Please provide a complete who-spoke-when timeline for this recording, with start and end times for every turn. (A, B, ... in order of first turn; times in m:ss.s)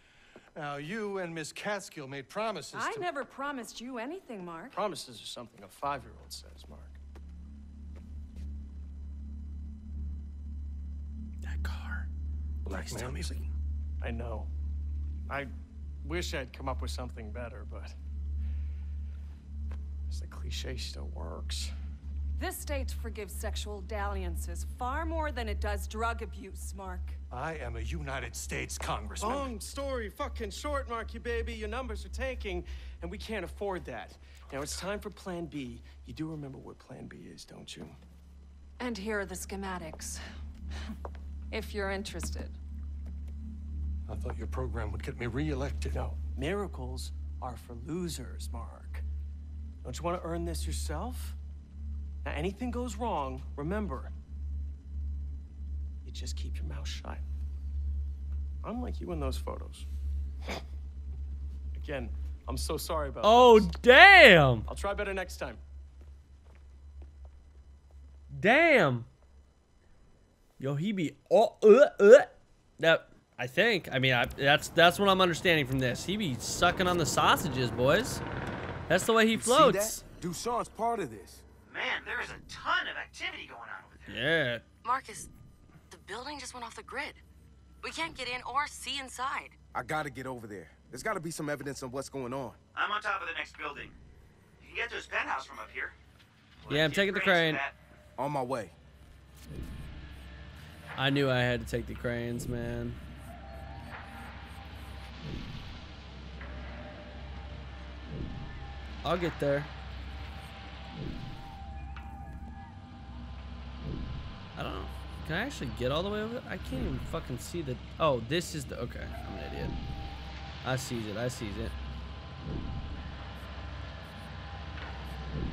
0:00.5-0:03.1 A
0:02.7-0:04.8 B
0:04.7-0:07.0 C
0:11.4-0:12.0 D
0:12.6-0:13.5 A
0:12.8-0:13.2 D
0:14.0-0:14.5 C
0:16.0-0:17.9 C
0:20.1-0:21.7 C
0:22.4-0:27.2 B
0:27.3-0:29.5 A
0:29.2-0:38.0 C
0:38.8-0:40.2 B
0:41.5-0:42.6 B
0:44.1-0:46.1 A
0:45.9-0:49.0 C
0:49.8-0:51.4 C
0:52.2-0:54.1 C
0:56.0-0:57.2 C
0:58.6-0:59.9 C
1:01.7-1:03.7 C
1:03.2-1:04.7 D
1:04.7-1:05.6 C
1:08.3-1:09.1 D
1:10.6-1:18.2 D
1:18.9-1:20.0 D
1:19.3-1:21.4 E
1:21.6-1:24.2 F
1:24.1-1:24.6 D
1:24.8-1:25.3 G
1:25.9-1:27.2 G
1:27.8-1:29.6 G
1:29.7-1:32.6 E
1:32.7-1:34.0 F
1:34.6-1:35.9 F
1:36.6-1:37.8 F
1:36.7-1:37.6 D
1:38.2-1:38.7 E
1:41.0-1:43.0 D
1:49.0-1:49.7 D
1:54.6-1:59.8 D
2:00.6-2:01.7 D